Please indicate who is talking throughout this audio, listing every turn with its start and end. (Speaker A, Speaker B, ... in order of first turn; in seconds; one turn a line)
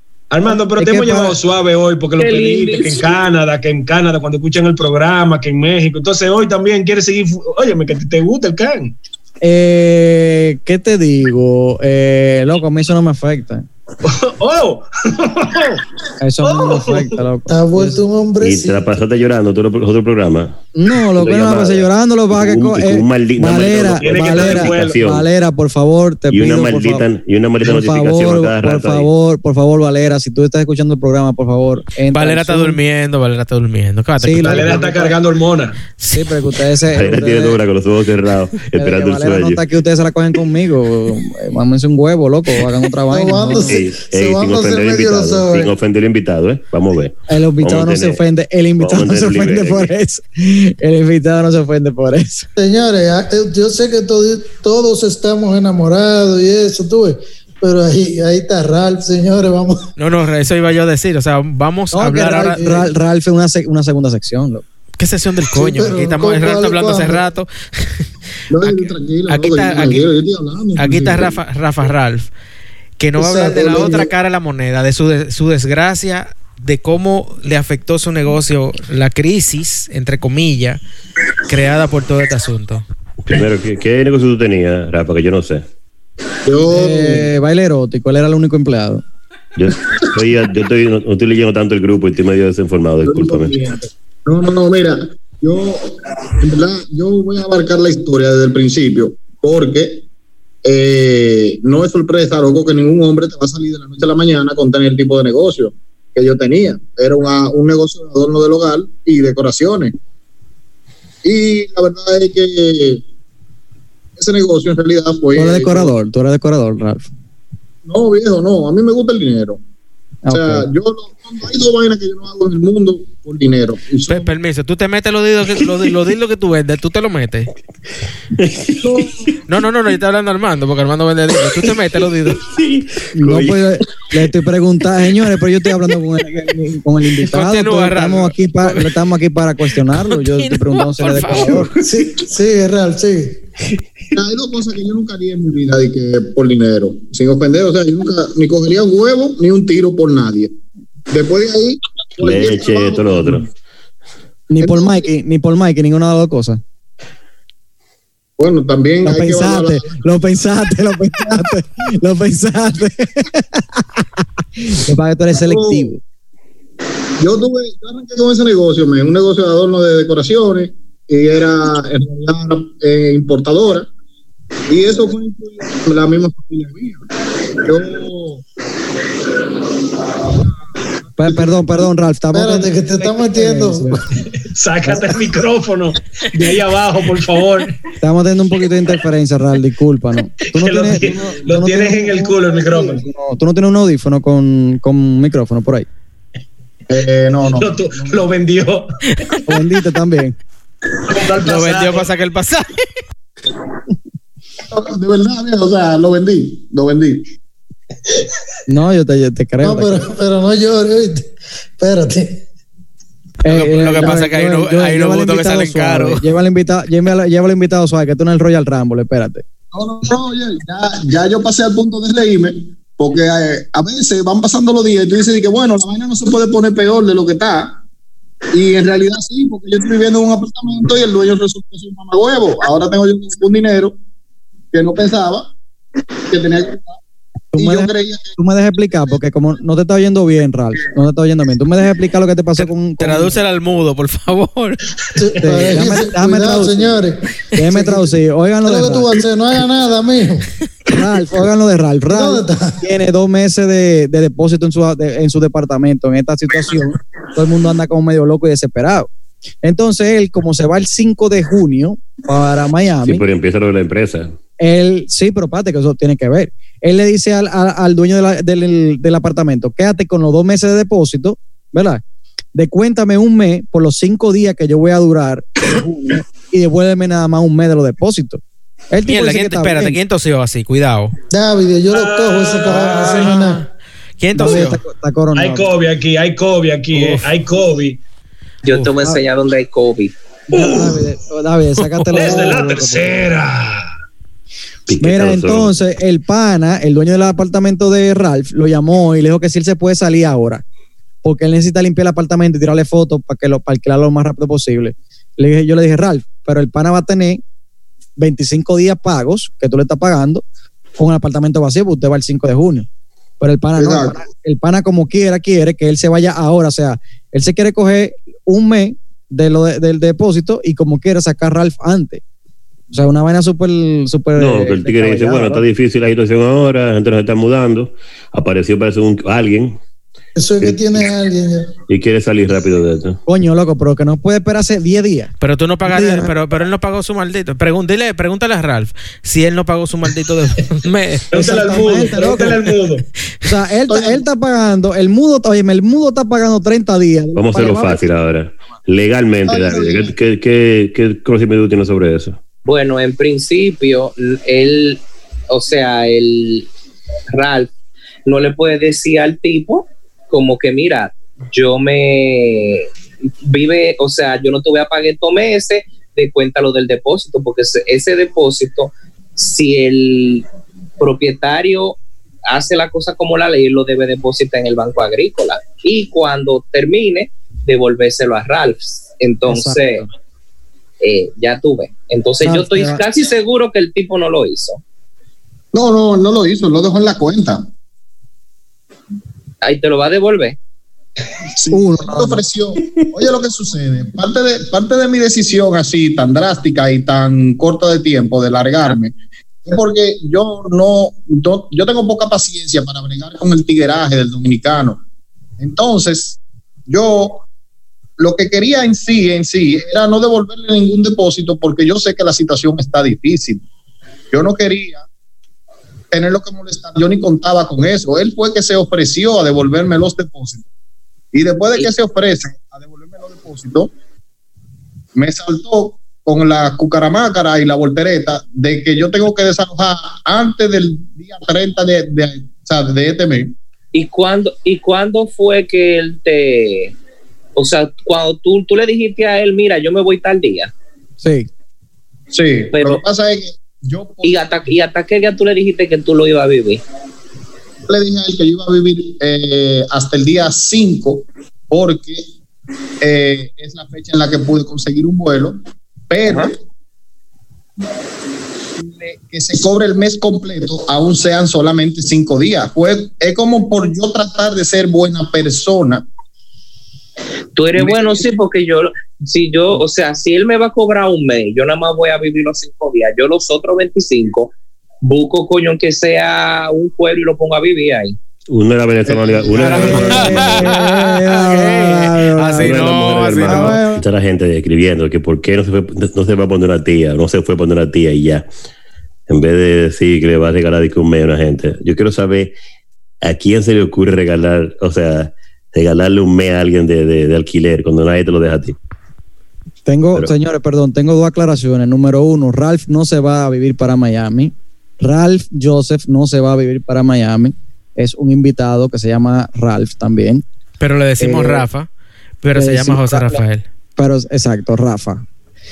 Speaker A: 0.3-8.9
Speaker B: 0.5-1.4
Speaker C: 2.2-3.2
Speaker B: 9.4-13.7
Speaker A: 14.0-15.8
Speaker B: 16.2-18.0
Speaker A: 16.4-17.2
Speaker D: 17.5-18.9
Speaker E: 18.4-20.6
Speaker B: 20.8-27.1
Speaker E: 21.2-25.2
Speaker A: 24.0-25.0
Speaker E: 26.3-29.1
Speaker B: 27.6-32.8
Speaker F: 32.1-34.8
Speaker B: 34.2-35.2
Speaker A: 34.4-35.8
Speaker B: 36.1-37.6
Speaker E: 36.9-39.6
Speaker B: 38.8-43.8
Speaker D: 43.1-45.7
Speaker E: 43.7-48.2
Speaker B: 47.3-52.5
Speaker E: 48.8-49.9
Speaker D: 52.6-59.9
Speaker F: 60.0-62.6
Speaker B: 61.9-64.6
Speaker D: 62.6-62.9
Speaker F: 65.0-68.0
Speaker D: 65.5-67.2
Speaker G: 68.5-71.4
Speaker F: 68.6-70.1
Speaker F: 70.8-72.3
Speaker F: 73.0-80.8
Speaker D: 73.2-74.1
Speaker F: 81.4-82.8
Speaker E: 83.3-85.6
Speaker G: 86.5-87.3
Speaker B: 86.7-89.0
Speaker E: 89.6-93.5
Speaker G: 93.0-100.0
Speaker G: 100.6-110.0
Speaker G: 111.2-113.0
Speaker G: 114.2-115.9
Speaker B: 115.3-117.1
Speaker G: 117.8-119.6
Speaker B: 120.2-120.7
Speaker G: 120.3-124.3
Speaker F: 124.1-127.5
Speaker E: 128.4-129.3
Speaker G: 128.8-129.3
Speaker F: 129.5-132.4
Speaker E: 132.4-133.6
Speaker B: 133.1-141.7
Speaker F: 137.2-138.9
Speaker F: 139.9-141.8
Speaker D: 141.8-143.4
Speaker G: 144.1-150.5
Speaker G: 151.1-153.5
Speaker E: 152.2-153.5
Speaker B: 154.5-156.6
Speaker G: 154.6-155.1
Speaker G: 158.4-160.0
Speaker B: 159.0-166.0
Speaker G: 165.3-165.9
Speaker G: 167.2-173.9
Speaker G: 174.7-177.0
Speaker G: 177.5-178.4
Speaker B: 181.2-184.1
Speaker G: 181.3-181.5
Speaker D: 182.3-184.1
Speaker A: 184.3-187.8
Speaker B: 184.9-185.2
Speaker B: 188.0-195.9
Speaker A: 190.5-193.0
Speaker G: 196.9-198.3
Speaker A: 197.5-199.4
Speaker B: 199.5-200.4
Speaker G: 201.1-202.0
Speaker F: 201.4-202.9
Speaker G: 204.7-207.3
Speaker B: 208.7-210.1
Speaker D: 209.6-212.4
Speaker B: 213.4-219.4
Speaker F: 213.5-216.2
Speaker G: 219.7-227.8
Speaker G: 228.5-234.0
Speaker G: 234.7-235.5
Speaker G: 236.3-237.0
Speaker B: 237.5-243.4
Speaker G: 237.6-238.3
Speaker F: 242.6-244.8
Speaker D: 245.2-250.5
Speaker B: 245.4-247.0
Speaker B: 247.5-249.2
Speaker B: 250.9-259.1
Speaker D: 252.1-252.8
Speaker B: 259.6-263.2
Speaker E: 263.0-264.4
Speaker B: 264.6-272.0
Speaker B: 272.5-280.0
Speaker F: 279.1-281.1
Speaker D: 281.3-283.7
Speaker A: 281.9-283.5
Speaker F: 283.1-283.6
Speaker F: 284.2-284.8
Speaker B: 284.4-285.7
Speaker A: 285.4-288.0
Speaker F: 286.9-287.3
Speaker C: 288.6-290.2
Speaker A: 290.5-291.1
Speaker B: 290.5-293.2
Speaker F: 291.8-292.4
Speaker A: 292.1-293.9
Speaker E: 294.9-295.7
Speaker B: 295.0-300.6
Speaker B: 301.2-307.4
Speaker B: 308.2-310.4
Speaker B: 311.0-312.9
Speaker B: 313.4-322.2
Speaker G: 313.8-314.2
Speaker B: 322.9-325.6
Speaker E: 324.4-329.8
Speaker D: 330.4-331.7
Speaker E: 330.6-331.1
Speaker E: 331.9-333.2
Speaker B: 333.3-335.3
Speaker F: 335.4-341.3
Speaker B: 335.8-336.3
Speaker A: 341.3-343.1
Speaker B: 341.3-342.7
Speaker B: 343.4-348.1
Speaker G: 343.9-344.1
Speaker E: 347.4-352.4
Speaker G: 349.5-350.1
Speaker C: 352.6-356.7
Speaker C: 357.3-357.7
Speaker C: 358.3-362.9
Speaker C: 363.4-370.5
Speaker C: 371.0-380.1
Speaker B: 379.5-380.1
Speaker C: 381.0-384.8
Speaker B: 382.4-383.0
Speaker G: 385.7-387.7
Speaker C: 389.6-390.6
Speaker G: 391.5-399.1
Speaker B: 391.7-392.4
Speaker G: 399.7-405.0
Speaker G: 405.6-407.5
Speaker G: 408.2-413.6
Speaker G: 414.3-415.1
Speaker G: 416.1-420.7
Speaker G: 421.3-423.9
Speaker G: 425.1-433.5
Speaker C: 433.9-436.9
Speaker C: 437.6-440.7
Speaker B: 441.2-441.5
Speaker G: 442.3-444.6
Speaker C: 442.7-443.0
Speaker C: 444.2-446.8
Speaker G: 447.9-452.3
Speaker G: 453.0-456.6
Speaker C: 456.3-456.5
Speaker G: 458.8-466.1
Speaker C: 467.6-478.2
Speaker E: 478.5-480.7
Speaker G: 479.1-480.2
Speaker F: 479.6-483.8
Speaker B: 479.7-484.1
Speaker E: 482.6-488.5
Speaker E: 489.3-492.5
Speaker E: 493.2-498.8
Speaker B: 499.9-510.4
Speaker F: 510.8-511.9
Speaker B: 511.2-511.7
Speaker F: 512.4-513.6
Speaker B: 512.5-513.4
Speaker B: 514.0-515.2